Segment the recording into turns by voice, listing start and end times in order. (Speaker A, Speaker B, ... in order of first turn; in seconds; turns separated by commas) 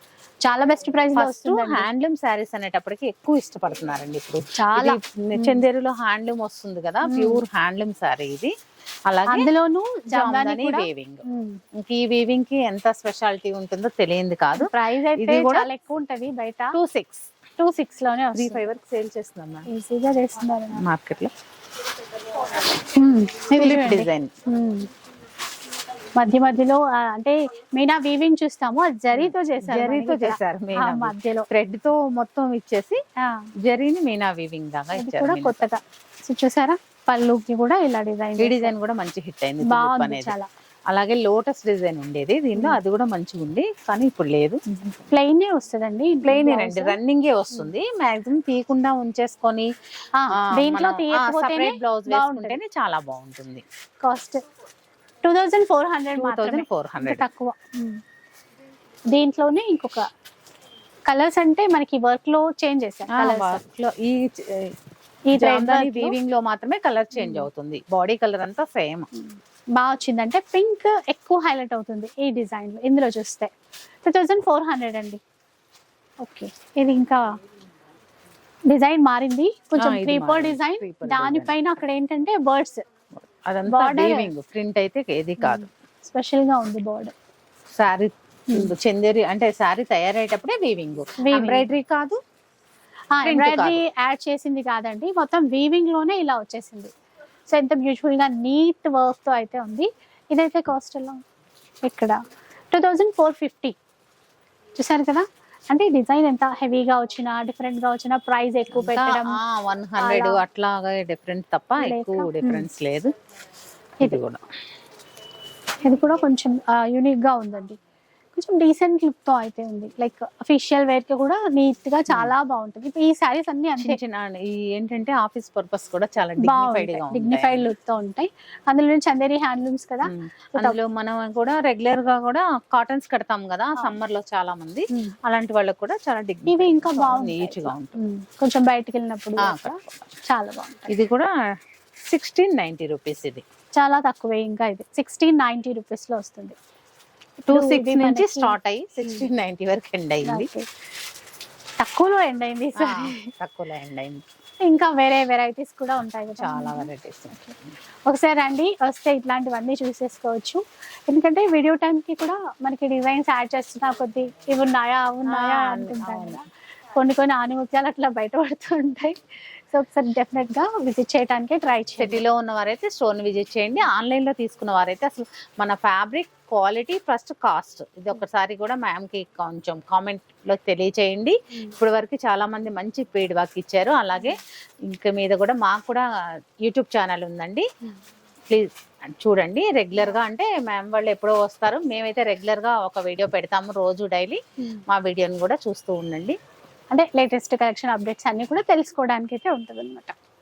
Speaker A: 0.4-1.9, Speaker B: 1.1-8.5, Speaker A: 4.6-5.6, Speaker A: 7.0-7.4, Speaker B: 9.1-9.5, Speaker A: 9.3-11.6, Speaker B: 10.1-15.7, Speaker A: 14.6-16.8, Speaker B: 16.7-17.3, Speaker A: 17.6-18.6, Speaker B: 18.3-19.7, Speaker A: 19.7-20.8, Speaker B: 20.7-21.3, Speaker A: 22.5-24.9, Speaker B: 23.5-24.3, Speaker A: 26.2-31.5, Speaker B: 29.1-33.0, Speaker A: 33.2-33.5, Speaker B: 33.6-35.7, Speaker A: 35.0-38.7, Speaker B: 38.4-40.4, Speaker A: 39.6-40.5, Speaker B: 40.9-44.6, Speaker A: 42.5-42.8, Speaker A: 45.1-47.0, Speaker B: 46.2-49.7, Speaker A: 50.2-52.6, Speaker B: 50.4-53.6, Speaker A: 54.0-54.4, Speaker A: 55.2-58.0, Speaker B: 56.2-57.2, Speaker A: 59.1-60.1, Speaker A: 61.1-63.6, Speaker B: 63.1-64.8, Speaker A: 65.3-66.2, Speaker B: 65.3-69.1, Speaker A: 67.2-67.5, Speaker A: 69.1-73.5, Speaker A: 74.0-75.2, Speaker A: 76.2-77.3, Speaker A: 78.7-82.8, Speaker B: 79.8-81.6, Speaker B: 83.3-85.7, Speaker A: 83.7-84.3, Speaker A: 85.4-87.1, Speaker B: 87.8-92.2, Speaker A: 91.2-91.7, Speaker A: 93.1-96.9, Speaker B: 93.2-93.8, Speaker A: 97.5-101.2, Speaker A: 101.8-102.2, Speaker A: 102.7-103.8, Speaker A: 104.8-109.4, Speaker B: 108.7-113.1, Speaker A: 110.0-110.4, Speaker A: 111.8-112.7, Speaker B: 114.0-114.4, Speaker A: 115.8-117.8, Speaker A: 118.4-124.0, Speaker B: 122.1-122.3, Speaker B: 123.8-127.7, Speaker A: 126.4-130.8, Speaker B: 130.1-138.0, Speaker A: 136.5-141.0, Speaker B: 139.4-140.1, Speaker B: 140.9-143.4, Speaker A: 143.8-146.6, Speaker A: 147.5-148.6, Speaker B: 147.5-150.5, Speaker A: 150.2-150.7, Speaker A: 151.8-153.3, Speaker B: 152.8-154.2, Speaker A: 154.6-157.5, Speaker B: 156.4-157.4, Speaker A: 158.1-166.4, Speaker B: 165.3-166.4, Speaker A: 166.9-172.2, Speaker B: 172.0-186.1, Speaker B: 186.6-187.7, Speaker B: 188.5-196.4, Speaker A: 196.9-200.2